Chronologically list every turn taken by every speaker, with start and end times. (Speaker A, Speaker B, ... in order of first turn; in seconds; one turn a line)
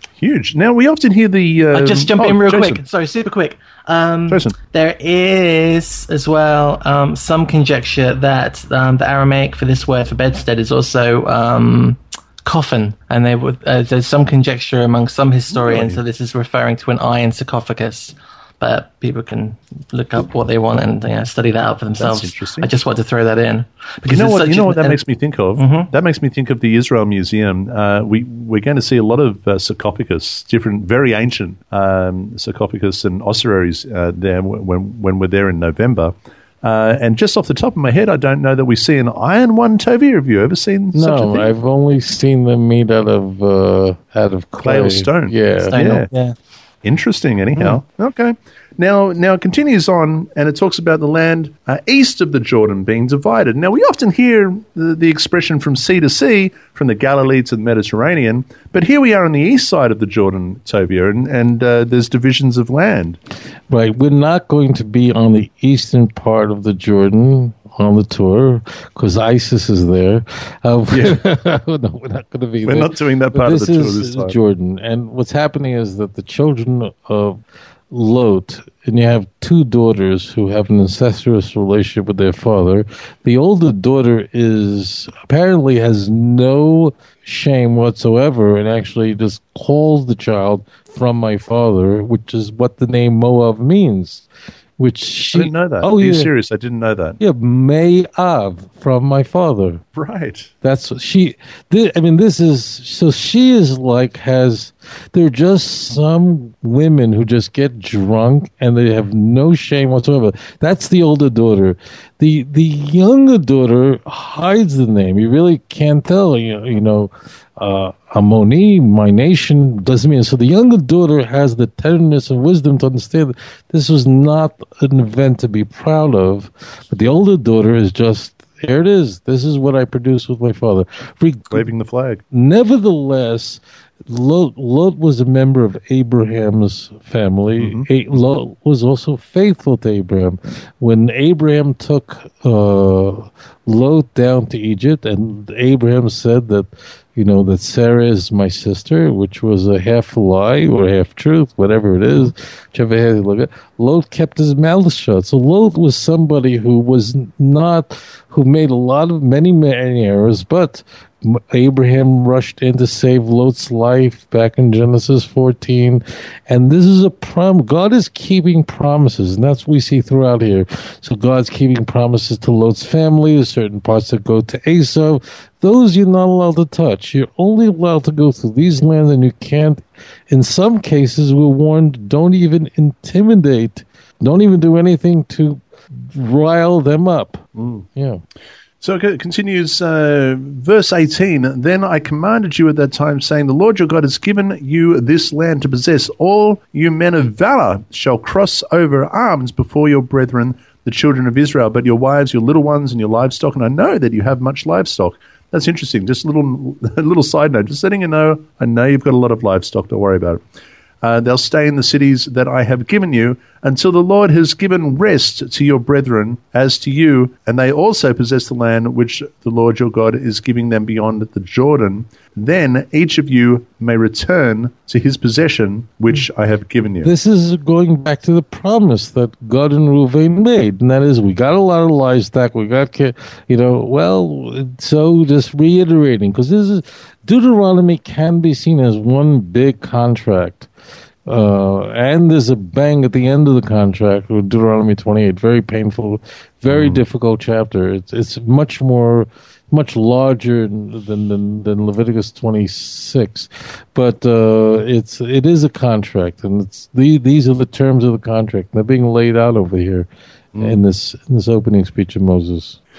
Speaker A: 0.2-2.8
Speaker B: 1.7-25.0
Speaker A: 4.3-4.6
Speaker A: 15.5-16.0
Speaker A: 22.0-22.7
Speaker A: 24.1-41.5
Speaker B: 25.6-25.9
Speaker C: 40.9-45.8
Speaker A: 44.6-46.1
Speaker B: 45.7-46.4
Speaker A: 46.8-63.2
Speaker C: 63.7-77.4
Speaker A: 70.9-71.2
Speaker A: 72.7-74.3
Speaker C: 77.9-94.3
Speaker C: 94.8-96.3
Speaker A: 95.3-97.2
Speaker C: 97.2-99.8
Speaker A: 100.0-100.5
Speaker C: 100.6-131.7
Speaker A: 131.5-132.2
Speaker C: 132.3-188.2
Speaker A: 137.6-137.9
Speaker A: 187.6-187.8
Speaker A: 188.8-210.4
Speaker A: 211.0-227.1
Speaker C: 227.0-240.7
Speaker C: 241.3-260.1
Speaker A: 246.7-247.0
Speaker A: 260.5-260.8
Speaker C: 260.6-262.8